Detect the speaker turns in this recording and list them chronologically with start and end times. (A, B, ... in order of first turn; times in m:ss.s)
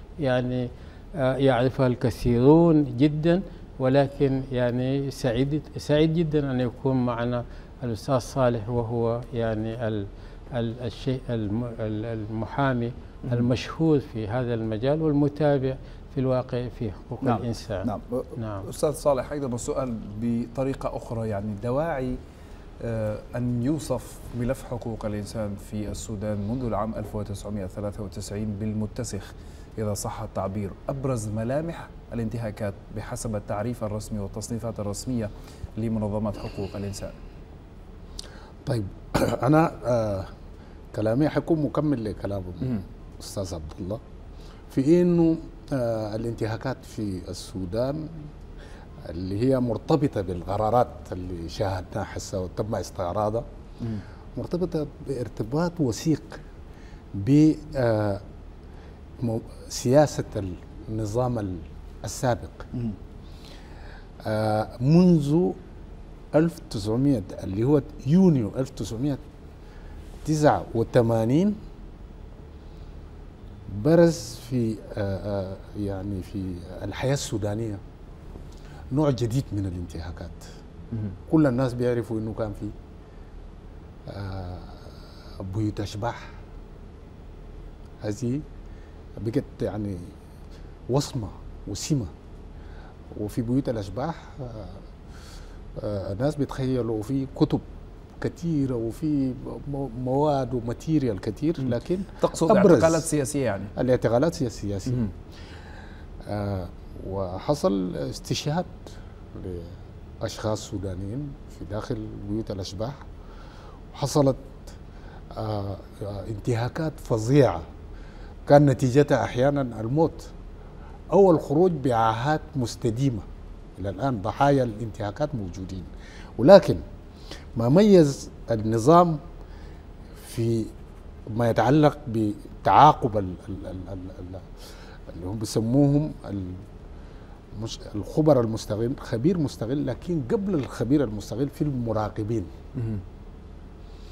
0:00.2-0:18.7 A
0:17.2-0:22.2 B
0:22.8-0:37.2 B
0:38.7-0:40.3 C
0:40.9-0:44.0 C
0:44.7-0:48.3 C
0:49.0-0:53.4 C
0:54.4-0:56.4 C
0:57.2-0:58.2 C
0:59.2-1:02.7 C
1:04.2-1:05.6 C
1:06.3-1:09.2 C
1:10.2-1:11.6 C
1:13.7-1:17.8 C
1:18.9-1:20.5 C
1:21.3-1:22.7 C
1:24.1-1:24.9 C
1:25.4-1:26.3 C
1:28.0-1:28.4 C
1:29.2-1:30.1 C
1:30.9-1:32.1 C
1:33.1-1:34.8 C
1:35.8-1:37.6 C
1:38.2-1:43.1 C
1:41.6-1:43.7 B
1:43.8-1:45.1 C
1:46.2-1:48.7 C
1:49.3-1:53.0 C
1:53.9-1:54.7 C
1:55.3-1:57.7 C
1:58.5-2:00.3 C
2:01.1-2:03.3 C
2:03.8-2:06.8 C
2:07.6-2:09.2 C
2:10.2-2:10.7 C
2:11.3-2:14.5 C
2:15.1-2:16.6 C
2:17.5-2:22.5 C
2:22.8-2:23.0 B